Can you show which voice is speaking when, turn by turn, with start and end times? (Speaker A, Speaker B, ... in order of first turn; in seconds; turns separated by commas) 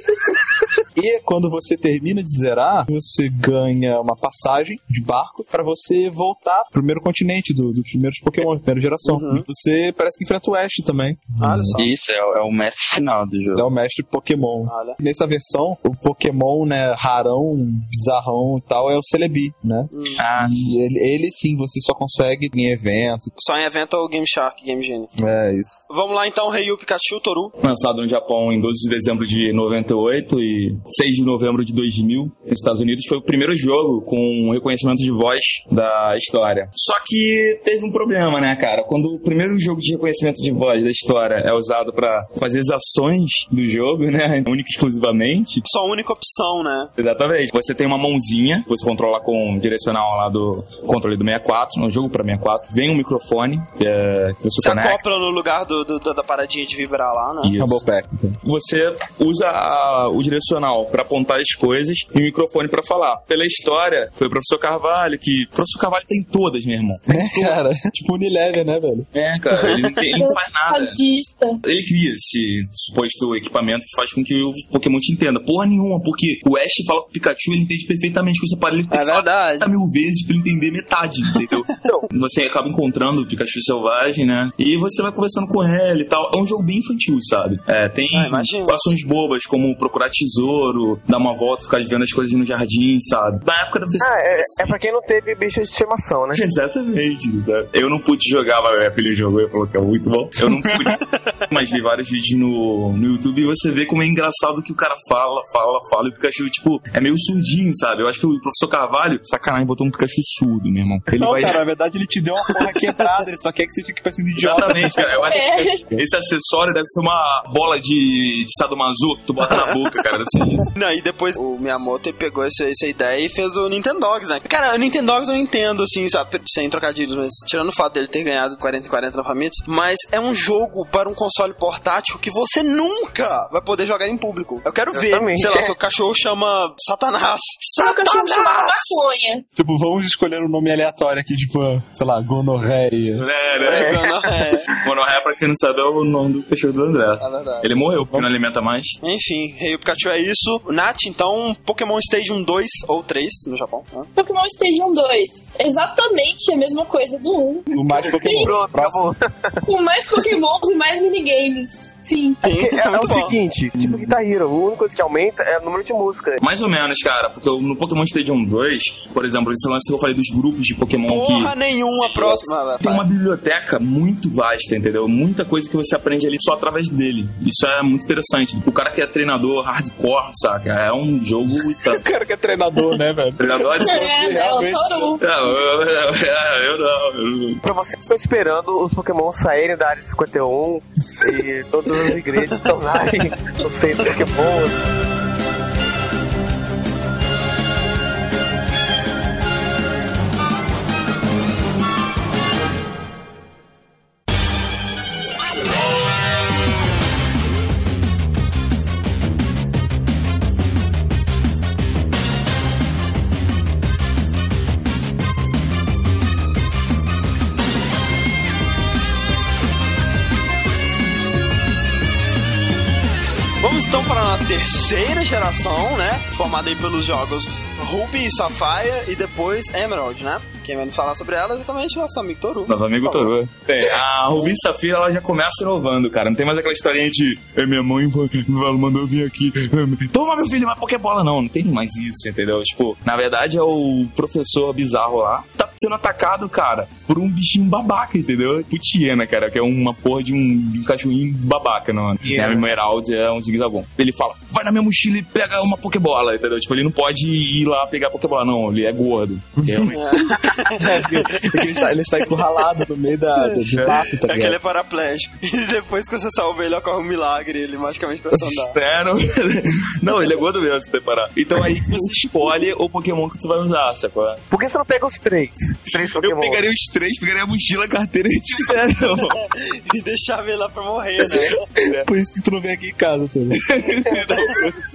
Speaker A: 0.9-11.8, Speaker B: 9.1-9.4, Speaker B: 11.4-11.9, Speaker C: 11.7-13.7, Speaker A: 13.5-23.3, Speaker B: 14.7-15.0, Speaker B: 19.9-20.2, Speaker D: 20.2-20.7, Speaker B: 23.4-25.1, Speaker A: 25.2-25.9, Speaker B: 25.9-27.5, Speaker D: 27.6-45.6, Speaker B: 45.6-46.9, Speaker D: 47.0-55.0, Speaker B: 54.6-57.5, Speaker D: 57.4-57.8, Speaker A: 57.5-58.4, Speaker D: 58.4-67.5, Speaker A: 67.1-69.1, Speaker D: 69.1-71.0, Speaker B: 69.6-70.0, Speaker E: 70.1-71.6, Speaker D: 71.6-94.8, Speaker B: 78.9-79.7, Speaker B: 88.1-88.9, Speaker F: 94.0-96.4, Speaker D: 96.3-111.6, Speaker A: 111.2-115.1, Speaker D: 114.4-120.7, Speaker E: 115.1-115.8, Speaker B: 119.4-119.8, Speaker B: 120.7-139.0, Speaker F: 134.9-135.7, Speaker E: 137.8-139.4, Speaker A: 139.6-143.2, Speaker D: 143.2-144.0, Speaker B: 143.6-144.7, Speaker F: 143.7-144.0, Speaker D: 144.7-149.0, Speaker B: 147.2-147.7, Speaker B: 149.0-154.1, Speaker E: 154.2-158.6, Speaker A: 157.7-159.0, Speaker F: 158.0-159.6, Speaker E: 159.6-162.4, Speaker B: 162.4-163.4, Speaker F: 162.5-166.4, Speaker D: 163.7-164.1, Speaker D: 166.4-182.0, Speaker B: 171.1-173.1, Speaker A: 181.8-185.1, Speaker D: 183.4-184.4, Speaker E: 183.7-185.2, Speaker D: 185.2-187.6, Speaker F: 187.6-194.9, Speaker B: 223.6-232.7, Speaker D: 232.7-260.2, Speaker F: 252.3-252.6, Speaker A: 259.6-259.9, Speaker B: 259.9-261.9, Speaker A: 260.7-264.6, Speaker B: 264.3-268.8, Speaker D: 268.4-274.4, Speaker F: 274.5-276.6, Speaker D: 275.9-279.4, Speaker B: 279.4-281.5, Speaker D: 281.6-282.1, Speaker A: 281.9-283.6, Speaker D: 283.6-284.8